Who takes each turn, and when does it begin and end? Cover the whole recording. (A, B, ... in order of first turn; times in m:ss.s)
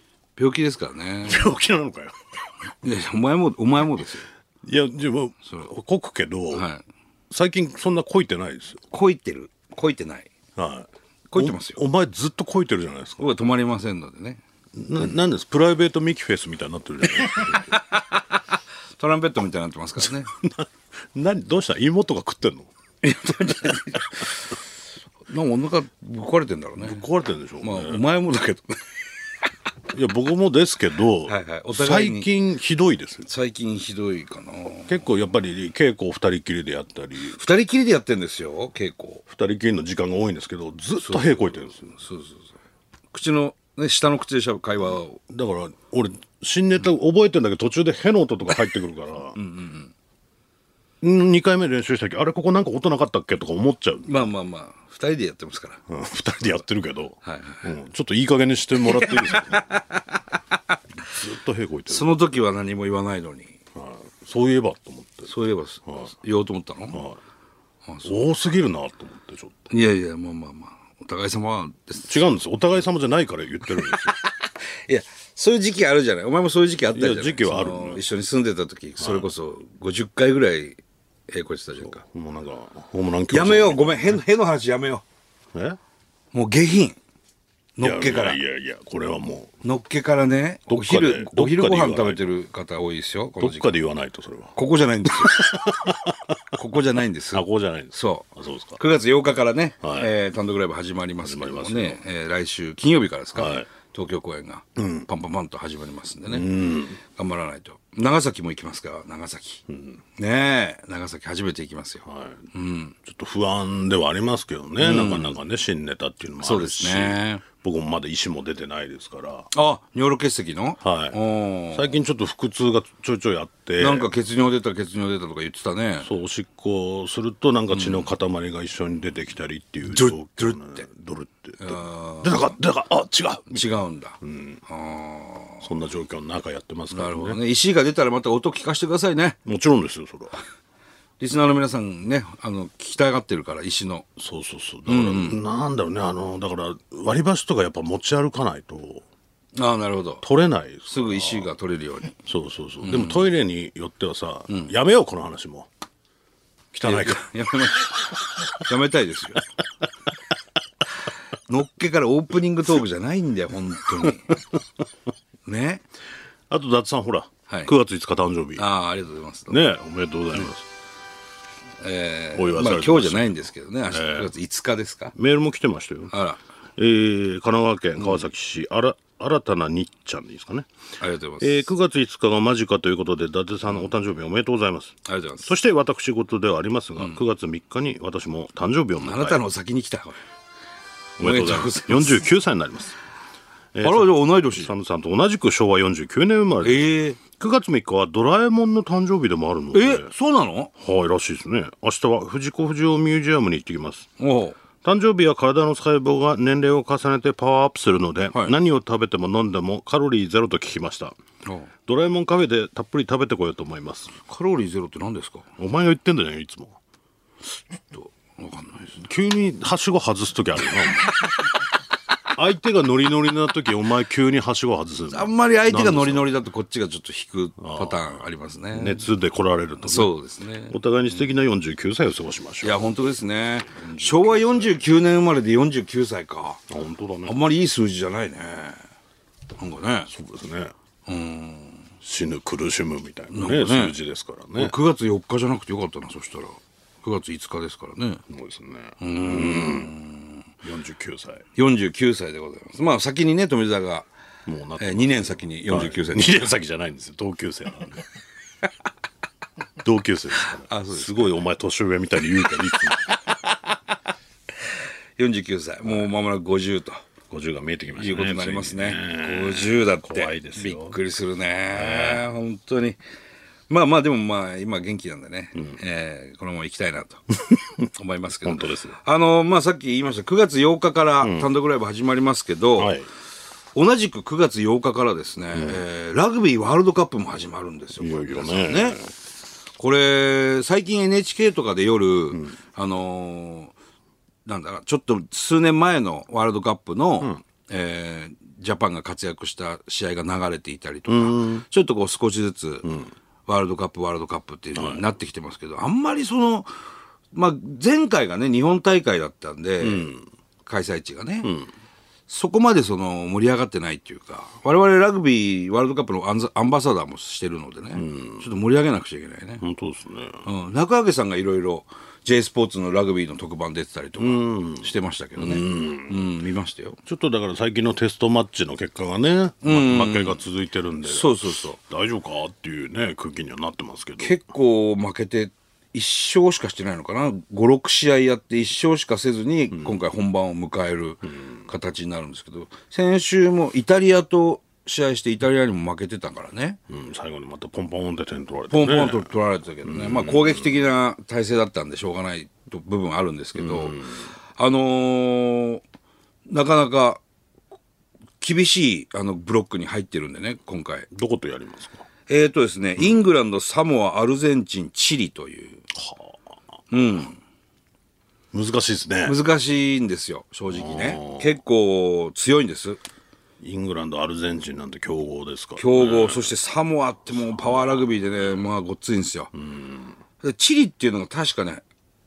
0:00.4-0:01.5 A
0:01.2-0:02.2 B
0:02.8-0:04.3 A
0:04.6-0:06.7 B
0:06.5-0:06.8 A
0:07.3-0:08.8 B
0:08.9-0:10.3 A
0:10.6-0:13.3 B
0:11.3-0:11.8 A
0:13.2-0:14.4 A
0:14.7-0:17.8 B
0:17.3-0:18.4 A
0:19.0-0:20.3 A
0:20.0-0:22.7 B
0:23.0-0:24.6 A
0:25.3-0:27.0 A
0:26.8-0:28.0 B
0:27.6-0:28.8 A
0:29.9-0:33.3 B
0:31.3-0:32.3 A
0:33.2-0:35.0 A
0:34.9-0:37.4 B
0:37.3-0:39.2 A
0:39.3-0:41.9 B
0:41.0-0:42.5 A
0:43.1-0:45.2 A
0:45.3-0:49.4 B
0:49.4-0:49.9 A
0:51.0-0:54.1 B
0:54.1-0:55.8 A
0:55.9-0:59.8 B
0:57.2-0:57.6 A
0:58.8-1:00.8 A
1:01.0-1:02.1 B
1:01.9-1:03.6 A
1:03.8-1:05.3 B
1:05.2-1:07.0 A
1:06.9-1:07.2 B
1:07.8-1:08.2 A
1:08.0-1:09.7 B
1:09.7-1:12.2 A
1:12.0-1:14.2 B
1:13.8-1:22.0 A
1:16.9-1:18.0 B
1:19.0-1:19.3 B
1:21.8-1:24.2 B
1:23.3-1:25.0 A
1:26.3-1:27.0 A
1:27.8-1:28.4 A
1:27.8-1:29.5 B
1:29.6-1:33.8 A
1:30.7-1:32.3 B
1:33.4-1:36.6 B
1:34.6-1:35.6 A
1:36.5-1:38.3 A
1:37.3-1:38.8 B
1:38.8-1:49.6 A
1:39.8-1:40.1 B
1:41.2-1:42.0 B
1:43.4-1:43.7 B
1:44.8-1:45.1 B
1:46.3-1:47.0 B
1:49.7-1:50.0 B
1:50.2-1:53.0 A
1:52.0-1:52.5 B
1:53.0-1:59.5 B
1:54.8-1:55.4 A
1:56.4-1:57.4 A
1:59.5-2:01.9 A
2:00.8-2:01.2 B
2:01.7-2:04.1 B
2:03.8-2:06.1 A
2:06.0-2:13.7 B
2:07.7-2:08.1 A
2:09.9-2:10.6 A
2:11.6-2:12.6 A
2:13.5-2:15.7 A
2:14.2-2:14.6 B
2:15.6-2:17.4 B
2:16.9-2:19.4 A
2:19.5-2:20.4 B
2:21.2-2:24.1 A
2:24.2-2:29.0 B
2:24.9-2:25.4 A
2:29.6-2:30.2 A
2:30.2-2:31.5 B
2:30.9-2:32.2 A
2:32.2-2:35.7 B
2:32.8-2:33.3 A
2:36.7-2:38.0 B
2:36.8-2:39.5 A
2:41.5-2:44.4 A
2:44.0-2:44.4 B
2:45.4-2:45.8 A
2:46.5-2:48.7 B
2:48.6-2:49.6 A
2:49.5-2:50.6 B
2:51.8-2:55.1 A
2:52.4-2:54.3 B
2:55.2-2:56.1 B
2:56.1-2:56.4 A
2:56.8-3:00.7 B
2:58.0-2:58.3 A
3:01.0-3:01.7 A
3:01.4-3:09.4 B
3:03.7-3:03.9 A
3:05.1-3:05.5 A
3:09.0-3:10.2 A
3:11.2-3:13.0 B
3:11.2-3:12.3 A
3:13.7-3:20.1 B
3:13.8-3:14.7 A
3:16.6-3:17.2 A
3:19.7-3:20.7 A
3:20.8-3:24.1 B
3:24.2-3:24.6 A
3:24.8-3:31.2 B
3:31.4-3:31.7 A
3:31.9-3:34.1 B
3:34.2-3:35.5 A
3:35.6-3:36.8 B
3:37.9-3:39.0 A
3:39.0-3:41.2 B
3:42.4-3:46.3 B
3:45.1-3:49.1 A
3:47.6-3:48.2 B
3:48.7-3:50.1 B
3:49.8-3:51.3 A
3:50.7-3:53.0 B
3:52.6-3:56.6 A
3:53.7-3:54.8 B
3:56.7-3:57.4 B
3:57.2-3:58.8 A
3:59.6-4:00.1 A
4:00.1-4:00.7 B
4:01.1-4:01.8 A
4:02.0-4:04.8 B
4:03.3-4:04.0 A
4:04.6-4:08.2 A
4:08.3-4:09.9 B
4:09.0-4:10.4 A
4:10.6-4:11.5 B
4:11.6-4:14.1 A
4:14.5-4:18.0 B
4:14.8-4:16.5 A
4:19.8-4:23.6 B
4:20.6-4:21.4 A
4:25.2-4:27.0 A
4:25.8-4:26.1 B
4:27.3-4:31.0 B
4:28.0-4:33.0 A
4:31.7-4:32.3 B
4:33.7-4:37.2 A
4:37.4-4:37.8 B
4:37.9-4:43.0 A
4:38.4-4:39.0 B
4:41.2-4:41.5 B
4:42.8-4:43.1 B
4:43.8-4:49.0 A
4:45.5-4:45.8 B
4:48.0-4:49.1 B
4:49.8-4:53.7 A
4:54.5-5:02.9 A
5:01.1-5:01.6 B
5:02.8-5:03.1 B
5:03.5-5:06.7 A
5:04.8-5:05.0 B
5:07.3-5:10.1 A
5:09.8-5:10.2 B
5:10.7-5:11.5 A
5:11.4-5:11.7 B
5:12.3-5:19.6 A
5:18.0-5:18.5 B
5:19.6-5:20.5 B
5:20.4-5:27.0 A
5:24.2-5:26.3 B
5:27.1-5:34.4 B
5:29.6-5:30.4 A
5:31.0-5:31.8 A
5:34.2-5:46.8 A
5:46.9-5:50.9 B
5:48.7-5:54.0 A
5:53.6-5:54.3 B
5:54.6-5:55.8 A
5:56.5-5:57.2 A
5:58.4-6:01.1 A
6:01.1-6:02.1 B
6:02.3-6:05.8 A
6:05.9-6:06.5 B
6:06.9-6:07.4 A
6:08.5-6:09.4 B
6:09.2-6:13.0 A
6:10.7-6:11.6 B
6:13.6-6:16.5 B
6:15.8-6:19.5 A
6:17.4-6:18.6 B
6:19.6-6:20.2 B
6:20.4-6:21.8 A